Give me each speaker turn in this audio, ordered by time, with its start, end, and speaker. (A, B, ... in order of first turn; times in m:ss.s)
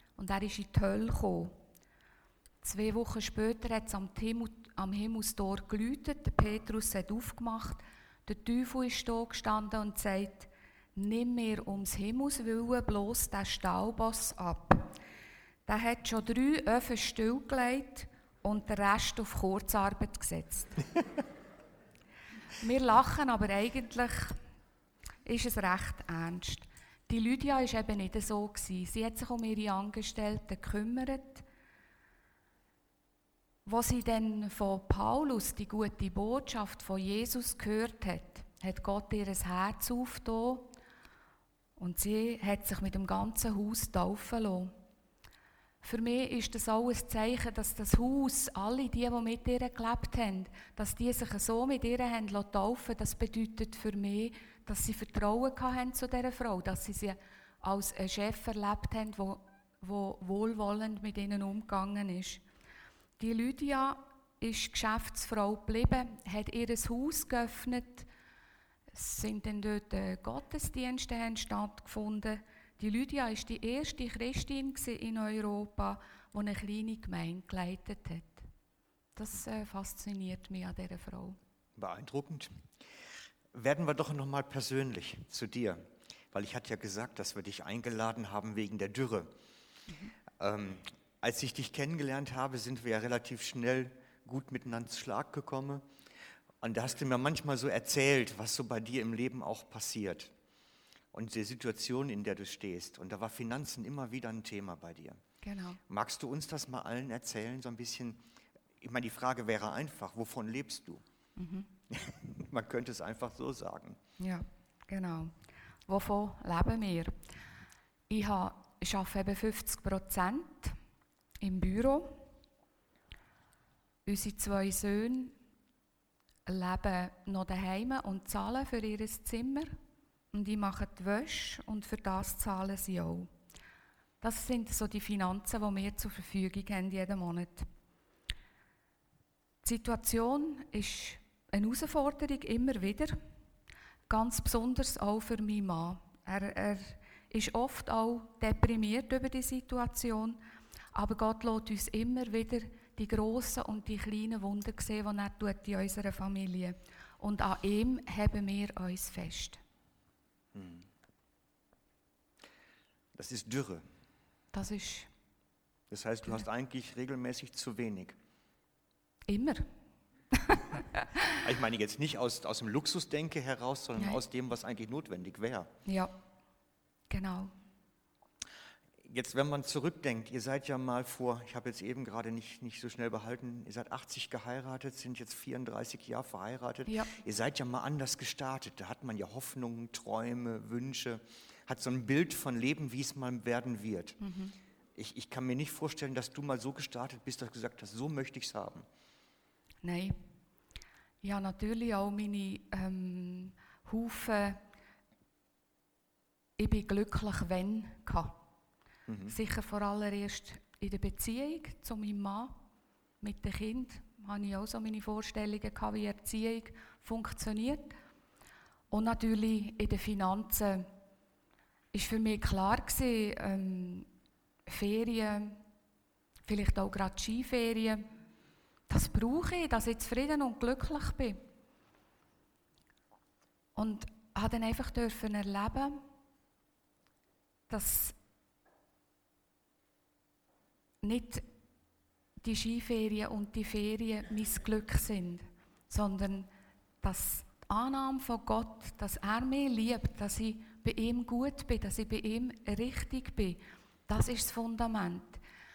0:00.2-0:01.6 A
0:02.6-0:14.9 A
0:15.7-0:20.8 A
0:22.6-0:24.4 A
0:25.2-0:31.4 A
0:33.6-0:40.7 A
0:41.8-0:44.7 A
0:45.8-1:02.4 A
1:03.2-1:08.1 A
1:08.9-1:18.5 A
1:19.2-1:21.4 A
1:21.8-1:22.7 B
1:23.5-1:29.4 B
1:30.4-1:35.8 B
1:36.6-1:40.3 B
1:41.1-1:45.2 B
1:45.4-1:45.8 A
1:45.9-1:48.2 B
1:48.8-1:51.0 B
1:51.4-1:51.7 A
1:51.9-1:54.0 B
1:54.2-1:55.4 A
1:55.9-1:57.2 A
1:58.1-2:00.8 A
2:01.4-2:02.2 A
2:04.1-2:05.4 A
2:06.5-2:09.8 A
2:10.3-2:13.3 A
2:14.2-2:17.7 A
2:19.6-2:23.2 A
2:24.1-2:30.4 A
2:30.9-2:39.6 A
2:40.5-2:40.9 B
2:43.2-2:43.9 B
2:44.5-2:45.1 A
2:45.9-2:48.2 B
2:49.3-2:49.7 A
2:50.3-2:50.8 A
2:51.4-2:55.7 B
2:55.9-2:56.1 A
2:57.1-2:57.5 A
2:59.0-3:14.2 B
3:14.2-3:14.6 A
3:15.0-3:18.9 B
3:19.8-3:20.2 A
3:21.2-3:24.6 A
3:26.6-3:28.4 A
3:29.1-3:29.4 B
3:29.3-3:32.6 A
3:33.2-3:38.0 A
3:38.9-3:40.9 A
3:41.9-3:44.1 A
3:44.7-3:45.6 A
3:46.5-3:48.0 A
3:48.9-3:51.4 A
3:53.8-3:56.0 A
3:57.7-3:58.2 A
4:01.0-4:01.4 A
4:02.4-4:06.5 A
4:07.0-4:15.4 A